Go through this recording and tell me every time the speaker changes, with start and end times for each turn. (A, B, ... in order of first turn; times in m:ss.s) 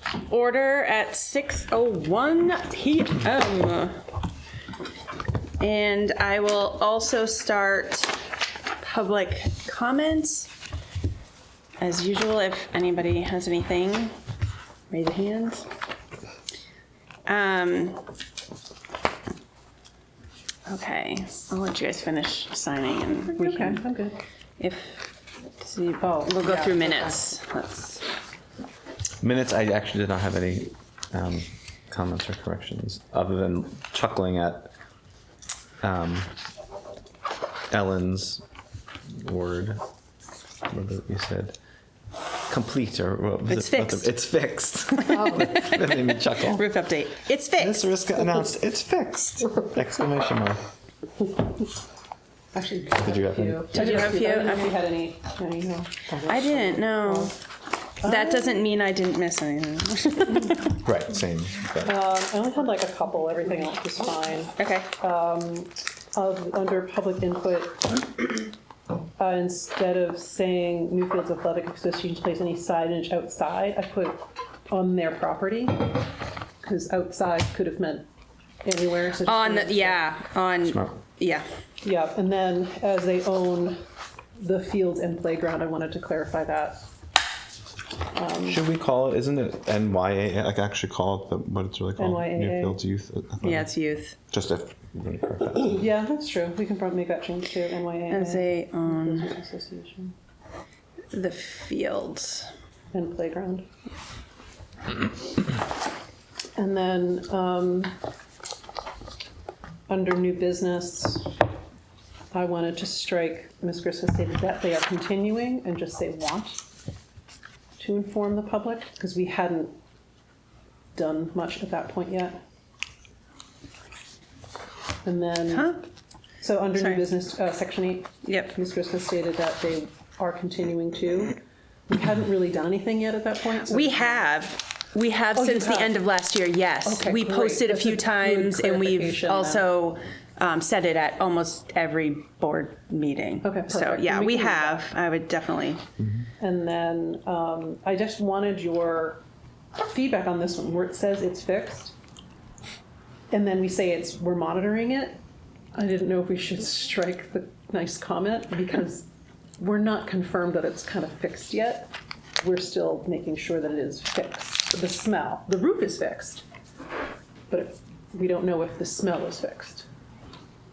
0:00.1-0:04.0 A
0:05.6-0:08.2 A
0:08.8-0:10.5 A
0:11.8-0:14.1 A
0:14.9-0:15.7 A
0:17.2-0:18.0 A
0:20.7-0:23.8 A
0:23.3-0:24.2 B
0:24.6-0:28.0 A
0:26.0-0:27.2 B
0:29.2-0:34.7 C
0:35.8-0:36.3 C
0:37.7-0:38.4 C
0:39.1-0:39.8 C
0:40.7-0:41.6 C
0:42.5-0:46.7 C
0:43.5-0:44.2 A
0:45.0-0:47.9 A
0:47.6-0:50.6 C
0:52.5-0:56.6 B
0:53.0-0:54.1 C
0:53.7-0:54.8 A
0:56.3-0:57.3 A
0:58.0-1:00.8 A
0:58.0-0:58.6 B
1:00.8-1:02.0 C
1:01.8-1:08.3 B
1:04.6-1:04.9 A
1:09.2-1:16.0 B
1:16.6-1:18.1 B
1:18.6-1:20.0 B
1:19.2-1:21.4 A
1:20.6-1:20.9 C
1:21.8-1:23.8 B
1:24.4-1:26.8 B
1:28.1-1:28.6 B
1:28.4-1:33.7 C
1:32.0-1:32.8 B
1:33.4-1:34.2 A
1:34.3-1:35.8 C
1:35.7-1:40.1 B
1:38.1-1:39.3 A
1:41.1-1:42.5 A
1:42.9-1:43.7 B
1:46.6-1:47.9 B
1:49.9-1:51.3 B
1:52.3-1:56.6 B
1:57.8-1:59.8 B
2:00.9-2:02.4 B
2:05.0-2:05.8 B
2:05.5-2:05.8 A
2:06.4-2:14.2 B
2:06.7-2:07.1 A
2:08.2-2:08.5 A
2:13.6-2:25.8 A
2:15.3-2:16.0 B
2:16.8-2:19.7 B
2:23.4-2:24.9 B
2:26.4-2:29.2 B
2:29.8-2:31.9 B
2:33.3-2:35.2 B
2:35.7-2:39.0 B
2:39.6-2:46.4 B
2:47.5-2:49.8 B